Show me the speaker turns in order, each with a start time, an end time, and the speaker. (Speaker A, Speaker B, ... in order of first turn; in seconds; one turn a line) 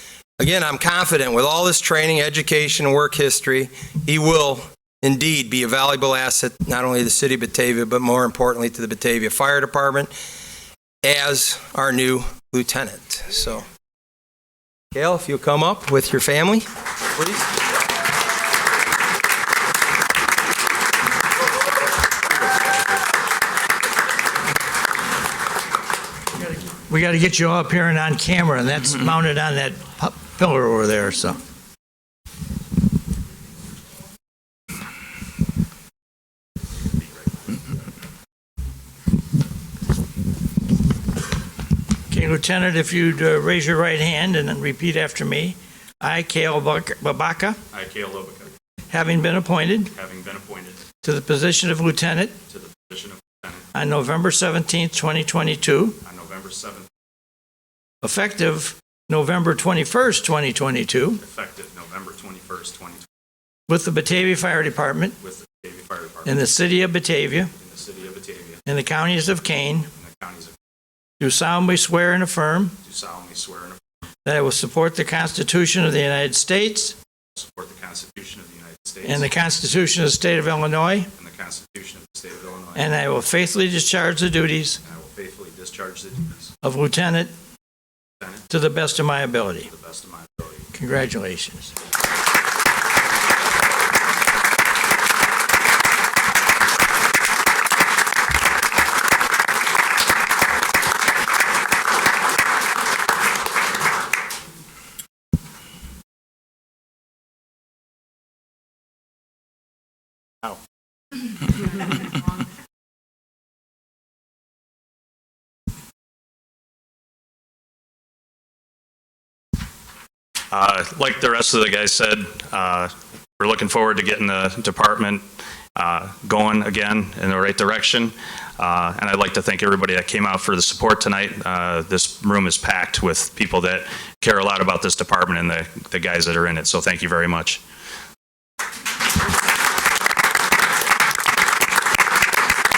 Speaker A: 0.4-10.1
Speaker A: 11.0-13.6
Speaker A: 14.9-17.4
Speaker B: 26.4-31.4
Speaker B: 42.1-47.6
Speaker C: 47.7-48.5
Speaker B: 48.9-49.9
Speaker C: 49.9-50.8
Speaker B: 51.0-52.4
Speaker C: 52.5-53.6
Speaker B: 53.7-56.0
Speaker C: 56.0-56.9
Speaker B: 58.0-61.2
Speaker C: 61.2-63.0
Speaker B: 63.7-65.2
Speaker C: 65.2-66.5
Speaker B: 66.2-67.5
Speaker C: 67.5-68.6
Speaker B: 68.7-69.9
Speaker C: 69.9-70.5
Speaker B: 71.2-72.7
Speaker C: 72.8-73.8
Speaker B: 74.2-77.0
Speaker C: 77.3-79.3
Speaker B: 79.0-81.1
Speaker C: 81.2-82.9
Speaker B: 82.7-84.8
Speaker C: 84.8-86.5
Speaker B: 86.6-87.3
Speaker C: 88.2-88.5
Speaker B: 88.5-89.7
Speaker C: 89.6-90.7
Speaker B: 90.7-91.7
Speaker C: 120.5-137.6